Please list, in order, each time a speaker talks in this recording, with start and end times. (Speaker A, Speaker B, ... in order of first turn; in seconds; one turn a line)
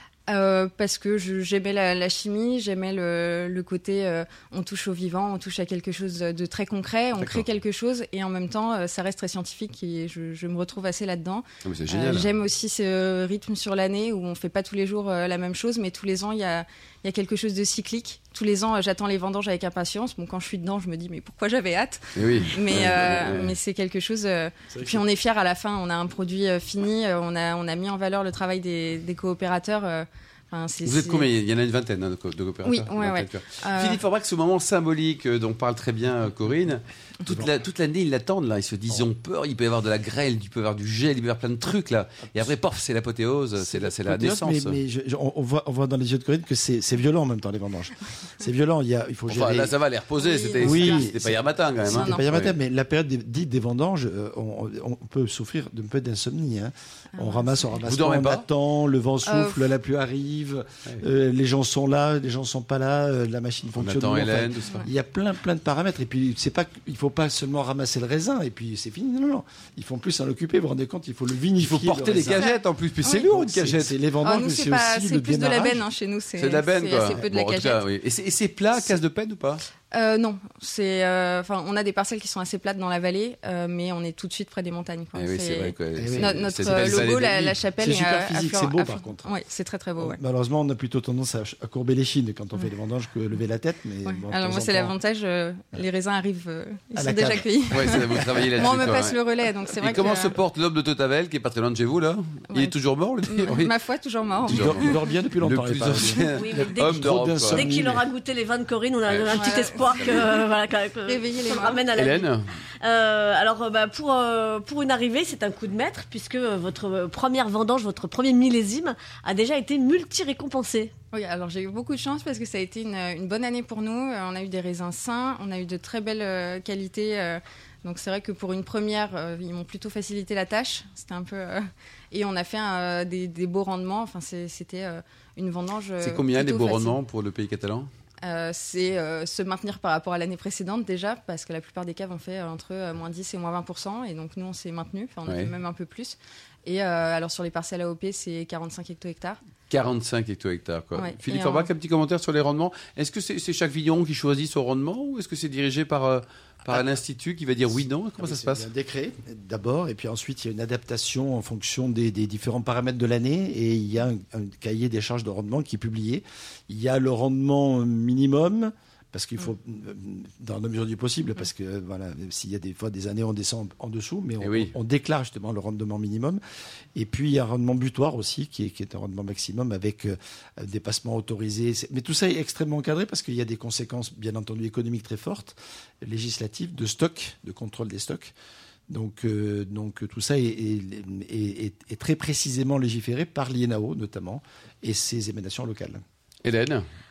Speaker A: 0.3-31.3
Speaker B: 11.6-12.3
Speaker B: 22.2-23.5
Speaker C: 24.7-25.0
Speaker B: 30.9-44.8
Speaker A: 32.6-34.0
Speaker C: 43.6-49.7
Speaker B: 49.3-52.5
Speaker A: 50.1-51.1
Speaker C: 50.6-72.4
Speaker A: 51.8-52.3
Speaker A: 57.2-57.9
Speaker B: 57.9-58.5
Speaker A: 59.3-59.7
Speaker B: 63.8-64.8
Speaker B: 71.6-74.0
Speaker A: 72.3-73.4
Speaker C: 73.1-75.9
Speaker A: 74.2-77.8
Speaker B: 76.4-79.6
Speaker A: 79.9-90.2
Speaker B: 85.2-87.5
Speaker C: 86.0-89.3
Speaker C: 90.0-95.0
Speaker A: 94.0-100.4
Speaker C: 97.0-99.0
Speaker B: 97.7-99.2
Speaker B: 99.8-103.7
Speaker A: 102.5-105.1
Speaker B: 104.5-107.8
Speaker C: 104.5-108.0
Speaker D: 106.3-120.9
Speaker B: 109.1-109.4
Speaker A: 109.3-110.2
Speaker A: 111.1-111.9
Speaker B: 112.0-112.5
Speaker A: 121.1-137.0
Speaker B: 136.0-137.9
Speaker A: 138.2-149.4
Speaker B: 149.7-158.7
Speaker A: 151.0-151.7
Speaker C: 157.7-176.4
Speaker B: 174.4-174.7
Speaker C: 176.9-188.3
Speaker C: 188.9-196.0
Speaker B: 196.4-196.9